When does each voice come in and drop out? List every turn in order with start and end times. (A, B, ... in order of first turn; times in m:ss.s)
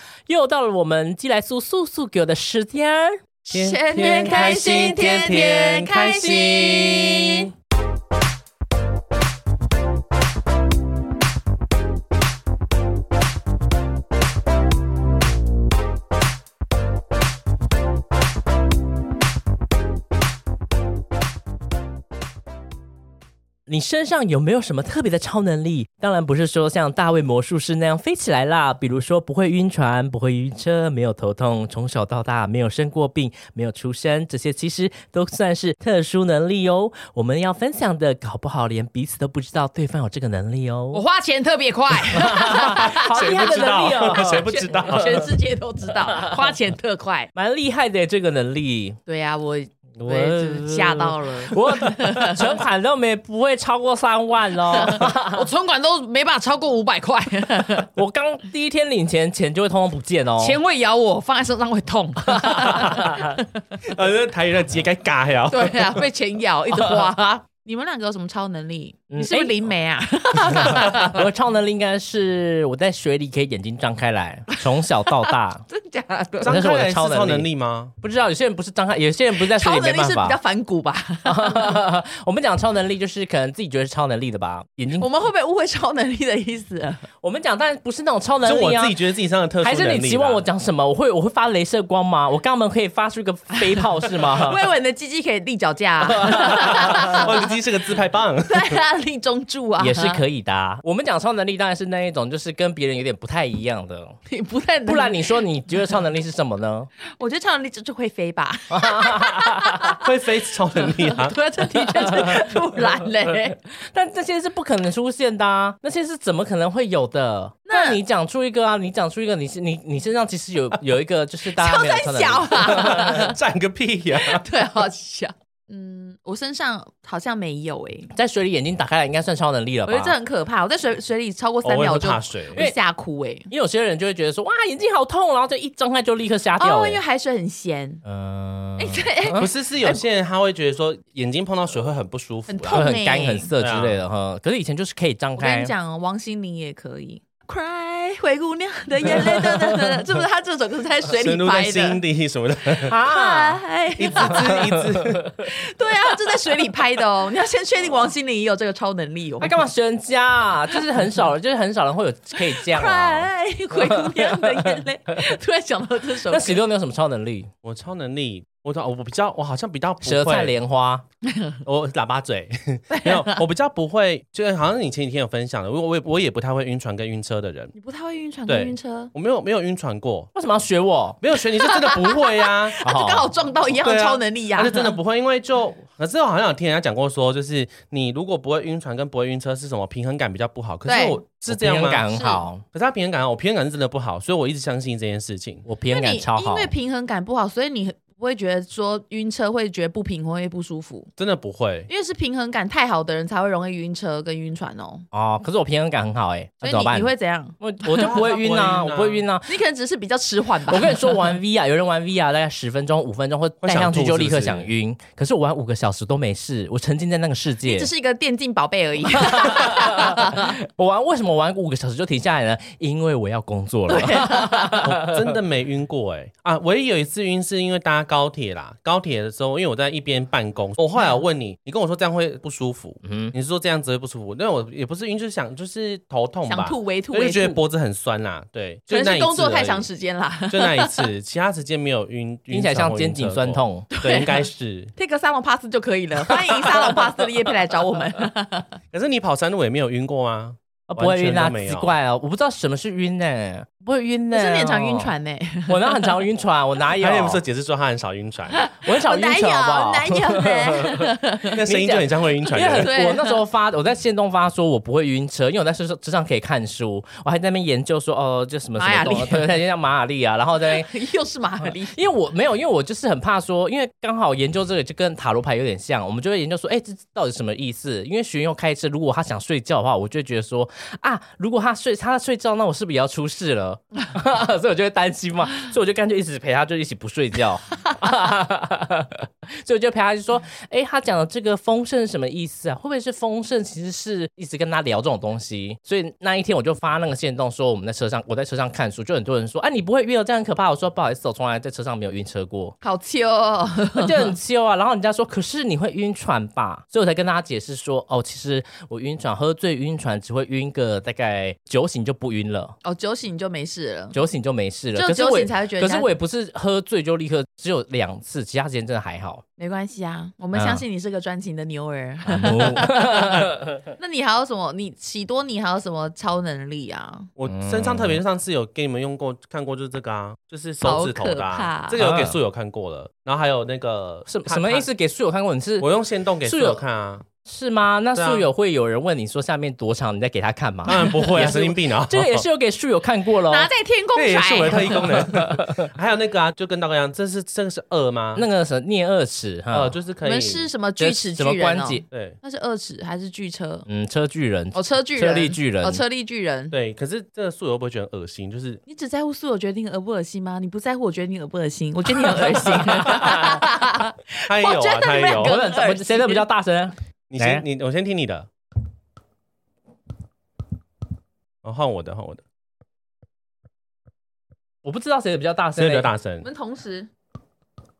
0:00.3-0:03.2 A
0:03.5-0:07.5 B
0:03.5-0:07.4 C
0:23.7-0:41.0 A
0:40.9-0:47.3 B
0:42.0-0:45.0 A
0:42.2-0:45.3 C
0:46.1-0:46.6 A
0:47.3-0:49.0 A
0:49.0-0:52.6 B
0:50.0-0:55.5 A
0:54.7-0:57.9 B
0:57.8-1:00.6 A
1:00.4-1:03.6 B
1:02.3-1:03.2 A
1:03.8-1:06.0 C
1:05.5-1:11.3 B
1:09.1-1:09.6 A
1:10.4-1:15.6 A
1:14.6-1:16.5 B
1:16.4-1:17.9 C
1:16.4-1:17.5 A
1:18.0-1:20.4 A
1:19.4-1:21.8 B
1:21.2-1:25.1 A
1:25.0-1:27.1 B
1:27.2-1:29.0 A
1:28.4-1:30.4 C
1:29.6-1:34.6 A
1:33.6-1:37.4 B
1:36.1-1:37.3 A
1:36.5-1:38.8 C
1:38.4-1:40.2 B
1:39.8-1:44.2 A
1:44.3-1:45.4 B
1:44.9-1:46.9 A
1:47.2-1:50.0 B
1:48.7-1:50.0 A
1:50.0-1:51.4 C
1:50.7-1:53.6 B
1:51.7-1:52.9 A
1:53.8-2:03.2 A
1:57.7-1:58.0 B
2:01.4-2:03.4 B
2:02.7-2:04.4 C
2:04.1-2:08.1 B
2:08.1-2:10.2 A
2:09.9-2:13.5 B
2:11.6-2:12.6 C
2:13.5-2:17.0 A
2:16.6-2:18.0 B
2:18.0-2:19.5 A
2:18.8-2:20.0 B
2:19.4-2:22.9 C
2:22.5-2:23.5 B
2:22.7-2:25.7 A
2:23.6-2:24.0 C
2:25.4-2:32.0 B
2:31.2-2:33.0 C
2:32.8-2:33.6 A
2:33.1-2:34.6 B
2:34.0-2:35.3 C
2:34.2-2:35.4 A
2:35.4-2:39.6 B
2:39.4-2:44.8 A
2:42.3-2:46.6 B
2:46.3-2:47.5 A
2:47.6-2:50.5 C
2:50.0-2:51.0 A
2:51.6-2:57.7 C
2:52.9-2:53.4 B
2:57.7-2:59.1 B
2:58.5-3:00.3 C
3:00.4-3:01.2 A
3:01.2-3:02.8 C
3:01.5-3:05.0 B
3:02.8-3:03.3 A
3:03.8-3:12.0 C
3:10.9-3:11.2 B
3:11.5-3:12.6 A
3:12.1-3:12.5 B
3:12.7-3:15.6 C
3:15.7-3:16.7 A
3:15.9-3:21.1 B
3:21.2-3:21.9 C
3:21.9-3:25.1 B
3:25.1-3:29.5 A
3:26.6-3:28.1 B
3:27.9-3:29.2 C
3:29.5-3:31.3 B
3:30.7-3:37.9 A
3:33.6-3:34.7 C
3:37.6-3:40.5 B
3:39.2-3:45.3 A
3:43.9-3:44.8 B
3:44.8-3:59.9 C
3:53.0-3:53.3 A
3:56.5-3:57.6 B
3:58.9-4:01.1 B
4:00.5-4:04.9 C
4:02.5-4:03.9 A
4:03.9-4:08.8 B
4:08.9-4:11.9 C
4:10.9-4:15.1 A
4:14.3-4:16.2 B
4:15.7-4:17.4 A
4:17.0-4:18.6 C
4:18.5-4:21.5 B
4:18.8-4:30.9 A
4:21.6-4:23.0 C
4:22.7-4:23.4 B
4:28.8-4:29.6 B
4:30.6-4:32.0 B
4:31.6-5:02.8 A
5:02.8-5:04.3 B
5:03.9-5:12.8 A
5:12.8-5:14.2 B
5:14.1-5:19.4 A
5:15.0-5:16.1 B
5:19.6-5:27.3 B
5:20.5-5:20.8 A
5:22.3-5:23.8 A
5:27.4-5:34.9 C
5:27.4-5:28.2 A
5:30.8-5:32.0 B
5:31.9-5:32.4 A
5:34.3-5:35.9 A
5:35.8-5:37.2 C
5:36.4-5:36.8 A
5:37.4-5:43.7 A
5:38.1-5:38.5 C
5:40.8-5:42.4 C
5:43.5-5:45.3 B
5:44.1-5:48.5 C
5:45.1-5:45.7 A
5:48.4-5:50.0 A
5:49.7-5:50.7 C
5:50.2-5:53.9 B
5:51.0-5:52.0 A
5:52.1-5:52.4 C
5:53.9-5:56.0 A
5:54.7-5:56.8 B
5:56.7-5:58.8 C
5:58.9-6:06.5 B
6:02.8-6:03.6 A
6:03.1-6:03.5 C
6:04.5-6:05.6 C
6:05.3-6:07.6 A
6:07.3-6:08.5 C
6:11.6-6:12.4 C
6:14.8-6:16.1 A
6:15.8-6:16.5 C
6:16.4-6:17.1 B